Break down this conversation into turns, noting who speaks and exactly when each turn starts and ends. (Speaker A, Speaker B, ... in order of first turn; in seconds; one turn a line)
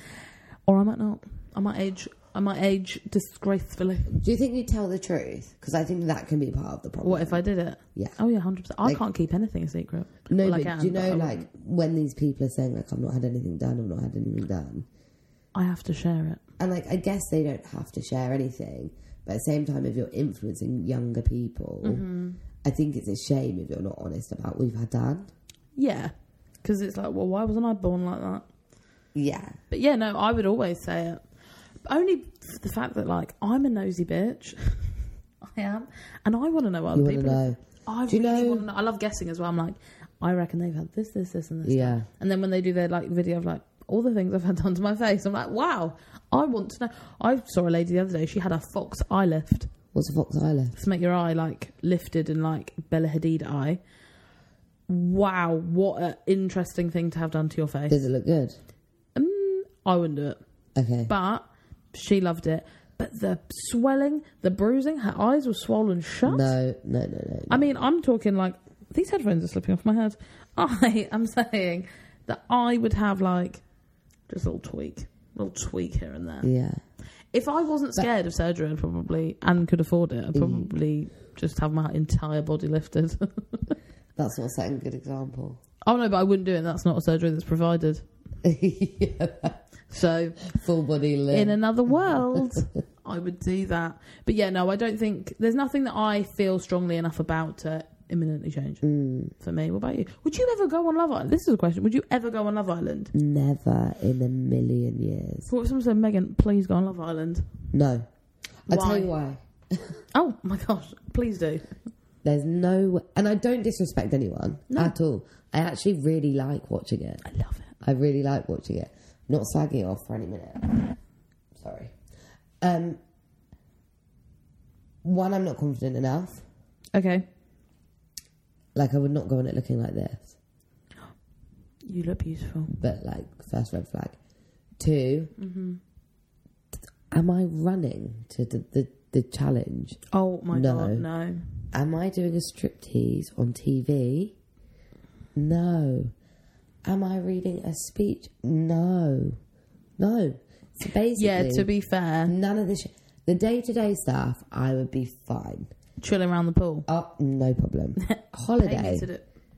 Speaker A: 0.7-4.2
Speaker B: 4.1-7.4
Speaker A: 7.0-11.4
Speaker B: 10.3-14.9
Speaker A: 15.6-16.4
Speaker B: 16.6-22.0
Speaker A: 21.8-22.4
Speaker B: 22.6-25.3
Speaker A: 25.8-26.1
Speaker A: 26.6-28.5
Speaker B: 29.1-29.6
Speaker A: 29.7-31.2
Speaker A: 31.9-49.7
Speaker B: 36.9-38.6
Speaker B: 41.6-42.1
Speaker B: 49.9-50.8
Speaker A: 50.8-53.8
Speaker A: 54.9-58.0
Speaker B: 57.9-58.6
Speaker A: 59.2-60.4
Speaker B: 60.8-61.1
Speaker A: 61.1-66.5
Speaker B: 66.3-67.7
Speaker A: 67.5-73.6
Speaker A: 74.3-76.5
Speaker B: 76.4-76.8
Speaker A: 77.3-83.8
Speaker B: 80.3-80.7
Speaker B: 84.2-85.6
Speaker A: 85.8-88.0
Speaker B: 88.4-89.6
Speaker A: 89.9-90.4
Speaker B: 90.4-92.7
Speaker A: 91.3-98.8
Speaker B: 98.8-99.3
Speaker A: 99.4-103.1
Speaker B: 103.1-105.5
Speaker A: 105.5-107.5
Speaker B: 107.7-108.1
Speaker B: 108.7-110.0
Speaker A: 108.7-109.1
Speaker A: 110.1-111.7
Speaker B: 112.2-117.2
Speaker A: 117.2-117.7
Speaker B: 117.8-121.0
Speaker B: 121.5-122.0
Speaker B: 122.6-123.0
Speaker B: 125.0-126.4
Speaker A: 127.0-127.3
Speaker B: 128.8-130.3
Speaker A: 131.8-132.7
Speaker B: 132.7-134.2
Speaker B: 134.8-135.3
Speaker A: 135.4-135.8
Speaker B: 137.1-140.0
Speaker A: 140.1-141.4
Speaker B: 140.5-141.1
Speaker B: 141.7-144.3
Speaker B: 145.3-146.1
Speaker B: 146.8-149.4
Speaker B: 150.0-151.7
Speaker A: 151.2-152.3
Speaker B: 152.3-155.7
Speaker A: 156.0-156.9
Speaker B: 156.9-159.1
Speaker A: 158.0-159.2